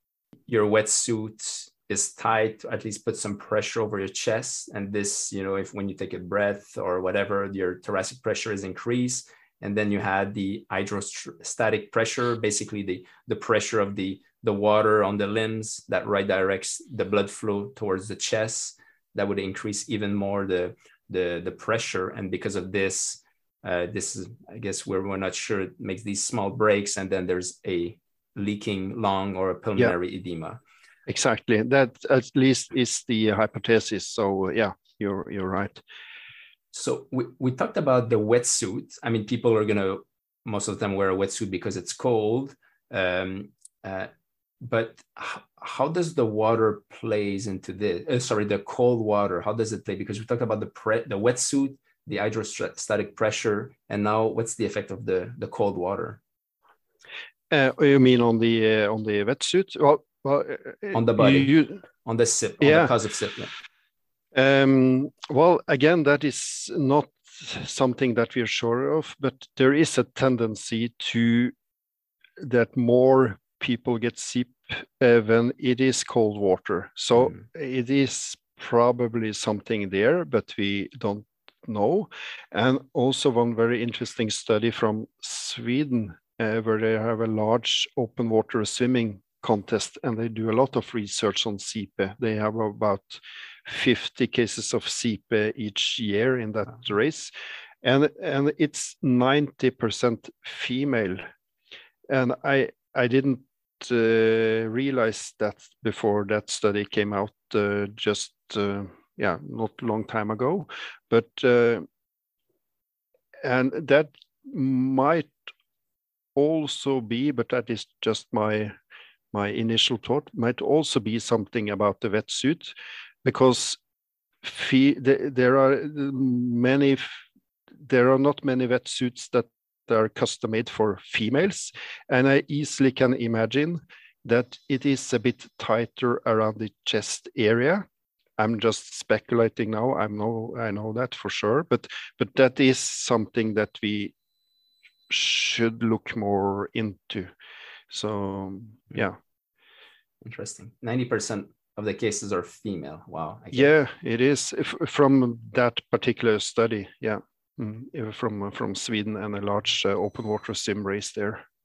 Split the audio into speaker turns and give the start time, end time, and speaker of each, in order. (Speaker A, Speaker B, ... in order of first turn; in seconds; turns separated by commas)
Speaker A: 0.5-30.6, Speaker B: 31.1-35.8, Speaker A: 36.7-44.1, Speaker A: 44.6-56.2, Speaker B: 57.5-61.8, Speaker A: 60.9-63.5, Speaker B: 62.6-62.9, Speaker B: 64.3-71.5, Speaker B: 72.4-97.3, Speaker B: 97.8-101.2, Speaker B: 102.1-111.8, Speaker B: 113.4-115.3, Speaker B: 116.4-118.7, Speaker B: 119.3-123.8, Speaker B: 124.4-127.2, Speaker B: 127.8-137.9, Speaker B: 138.4-144.1, Speaker B: 145.1-147.3, Speaker B: 147.9-149.2, Speaker A: 150.2-153.7, Speaker B: 153.5-161.4